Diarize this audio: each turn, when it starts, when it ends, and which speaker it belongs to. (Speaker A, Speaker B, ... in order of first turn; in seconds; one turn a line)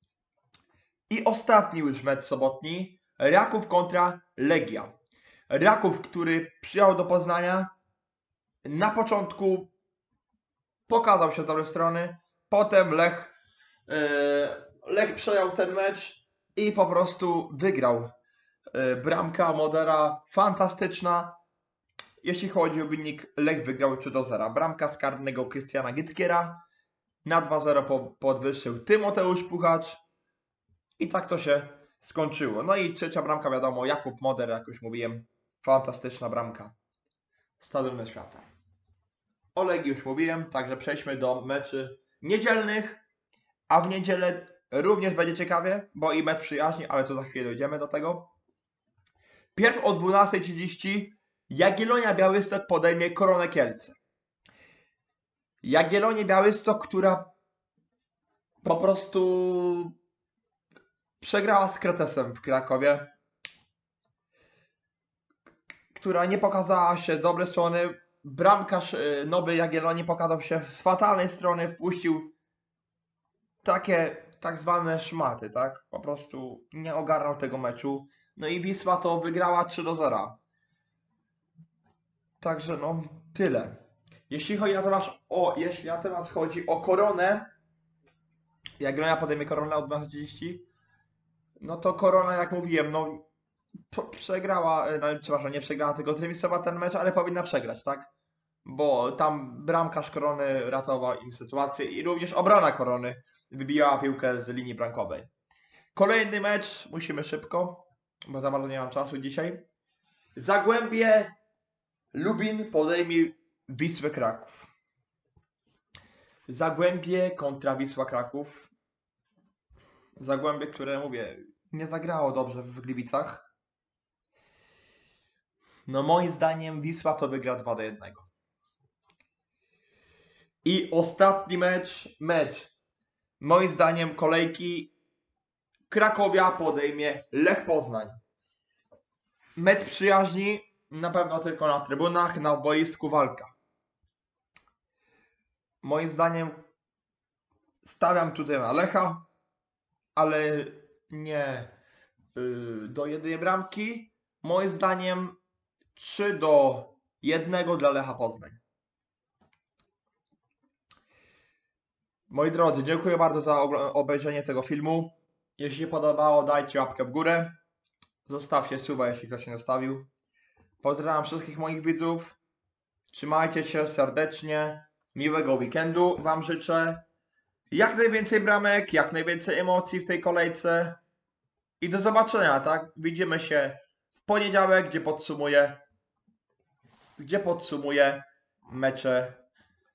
Speaker A: 1.1-4.9
Speaker A: 5.5-7.7
Speaker A: 8.6-9.7
Speaker A: 10.9-13.3
Speaker A: 13.9-18.1
Speaker A: 18.7-21.4
Speaker A: 22.2-26.6
Speaker A: 27.2-30.0
Speaker A: 31.0-36.8
Speaker A: 37.6-38.5
Speaker A: 39.5-43.0
Speaker A: 43.7-48.3
Speaker A: 49.5-54.0
Speaker A: 55.6-57.3
Speaker A: 58.6-59.9
Speaker A: 61.2-63.1
Speaker A: 65.9-72.3
Speaker A: 73.6-80.4
Speaker A: 82.4-87.5
Speaker A: 88.8-90.7
Speaker A: 91.6-93.2
Speaker A: 93.9-98.1
Speaker A: 98.6-105.3
Speaker A: 105.9-109.7
Speaker A: 110.3-111.4
Speaker A: 112.1-114.7
Speaker A: 116.5-118.7
Speaker A: 120.2-123.5
Speaker A: 125.9-128.3
Speaker A: 130.6-132.7
Speaker A: 133.4-134.9
Speaker A: 135.9-138.2
Speaker A: 139.6-143.5
Speaker A: 145.8-146.7
Speaker A: 147.8-149.3
Speaker A: 150.2-151.8
Speaker A: 152.3-155.4
Speaker A: 155.9-158.6
Speaker A: 162.3-167.6
Speaker A: 168.2-170.1
Speaker A: 170.8-172.4
Speaker A: 173.1-177.0
Speaker A: 177.7-181.0
Speaker A: 181.8-185.8
Speaker A: 187.2-189.4